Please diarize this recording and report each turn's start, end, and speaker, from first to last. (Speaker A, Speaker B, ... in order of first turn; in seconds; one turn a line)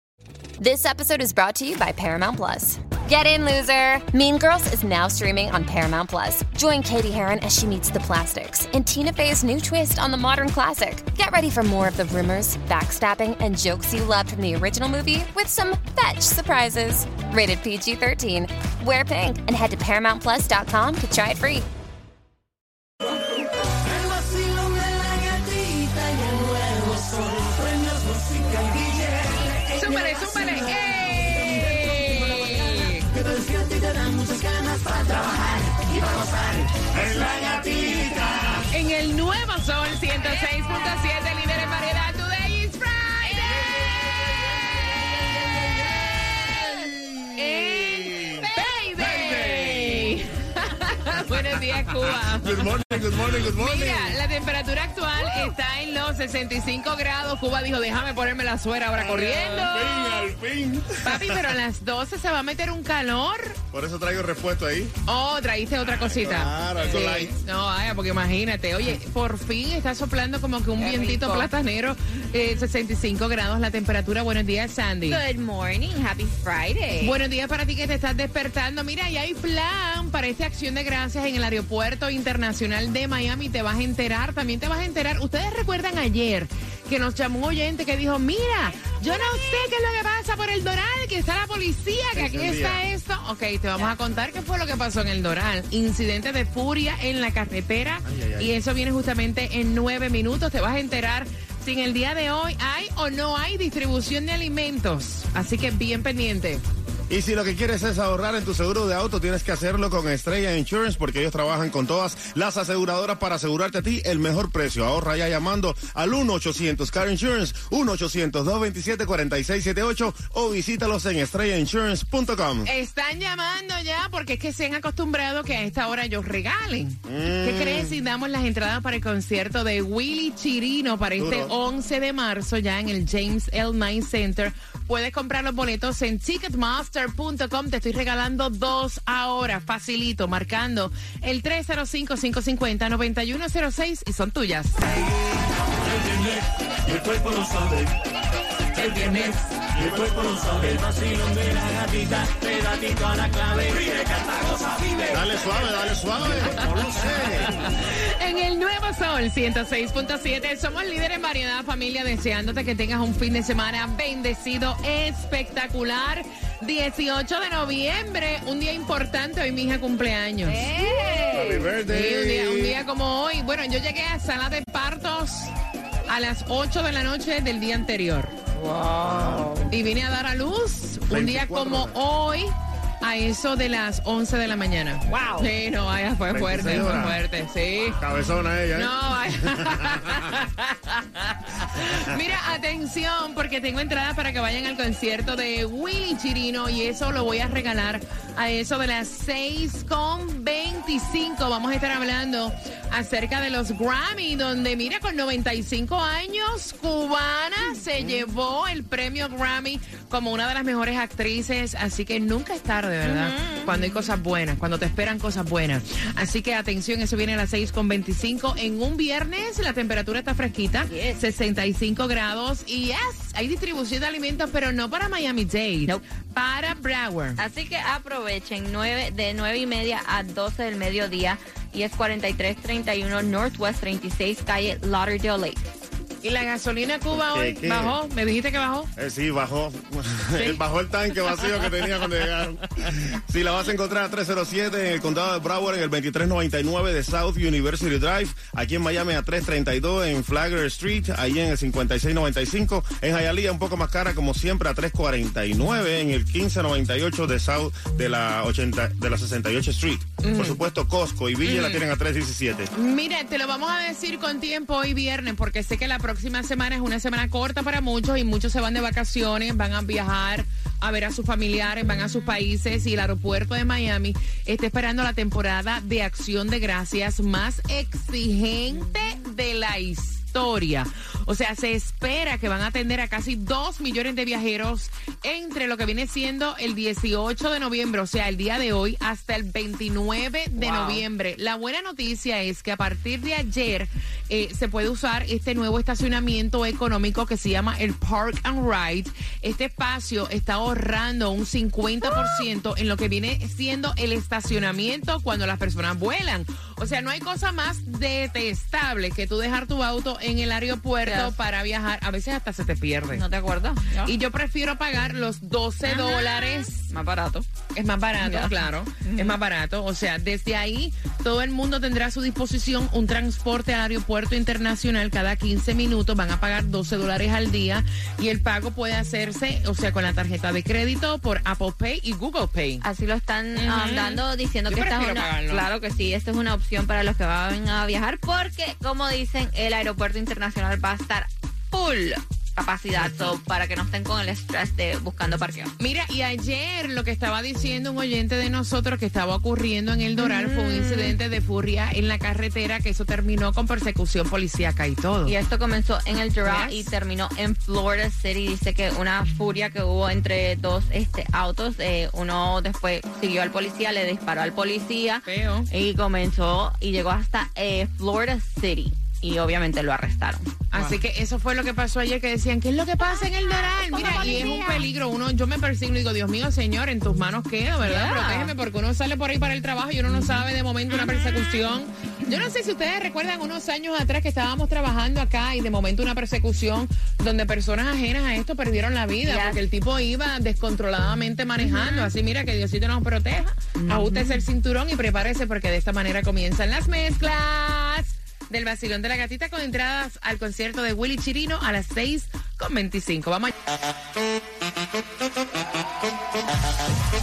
Speaker A: 0.6-21.7
Speaker B: 23.8-29.8
Speaker C: 29.7-33.1
Speaker B: 33.2-36.9
Speaker D: 36.9-38.6
Speaker C: 38.6-46.6
Speaker D: 43.6-44.6
Speaker D: 46.4-50.1
Speaker C: 47.4-60.3
Speaker D: 51.5-54.2
Speaker D: 59.0-61.6
Speaker C: 61.0-63.6
Speaker D: 63.7-64.9
Speaker C: 65.1-75.2
Speaker D: 65.9-67.3
Speaker E: 66.8-67.0
Speaker E: 70.8-71.5
Speaker E: 75.1-77.2
Speaker C: 77.0-106.6
Speaker D: 92.2-92.8
Speaker D: 98.1-98.5
Speaker D: 107.1-122.7
Speaker C: 122.6-144.8
Speaker D: 127.0-128.0
Speaker D: 131.2-131.5
Speaker B: 145.9-147.9
Speaker B: 148.8-155.2
Speaker D: 149.7-150.6
Speaker D: 155.1-157.5
Speaker C: 157.2-170.7
Speaker E: 170.4-171.7
Speaker D: 170.8-172.8
Speaker C: 171.8-175.5
Speaker C: 176.1-178.3
Speaker E: 178.6-179.7
Speaker D: 179.0-179.6
Speaker C: 179.7-188.0
Speaker D: 181.1-181.9
Speaker E: 185.1-185.5
Speaker D: 186.3-187.2
Speaker D: 188.0-190.2
Speaker C: 188.7-227.4
Speaker D: 191.9-192.2
Speaker E: 213.0-214.1
Speaker E: 220.9-221.2
Speaker E: 227.4-235.6
Speaker C: 236.2-238.9
Speaker D: 237.1-238.0
Speaker D: 239.0-262.7
Speaker C: 240.3-240.6
Speaker C: 260.2-260.6
Speaker C: 261.4-261.8
Speaker C: 262.7-313.2
Speaker E: 290.6-291.1
Speaker E: 311.0-311.3
Speaker E: 313.1-314.1
Speaker C: 314.0-316.9
Speaker E: 315.8-317.5
Speaker C: 317.7-332.9
Speaker E: 318.2-319.4
Speaker E: 332.8-345.7
Speaker C: 333.6-335.7
Speaker C: 345.8-355.3
Speaker E: 350.2-351.2
Speaker E: 355.2-370.9
Speaker C: 356.4-356.9
Speaker C: 365.3-365.7
Speaker C: 370.7-403.5
Speaker E: 373.0-374.9
Speaker E: 377.8-378.5
Speaker E: 380.1-381.7
Speaker E: 389.2-389.6
Speaker E: 391.6-392.1
Speaker E: 393.8-394.4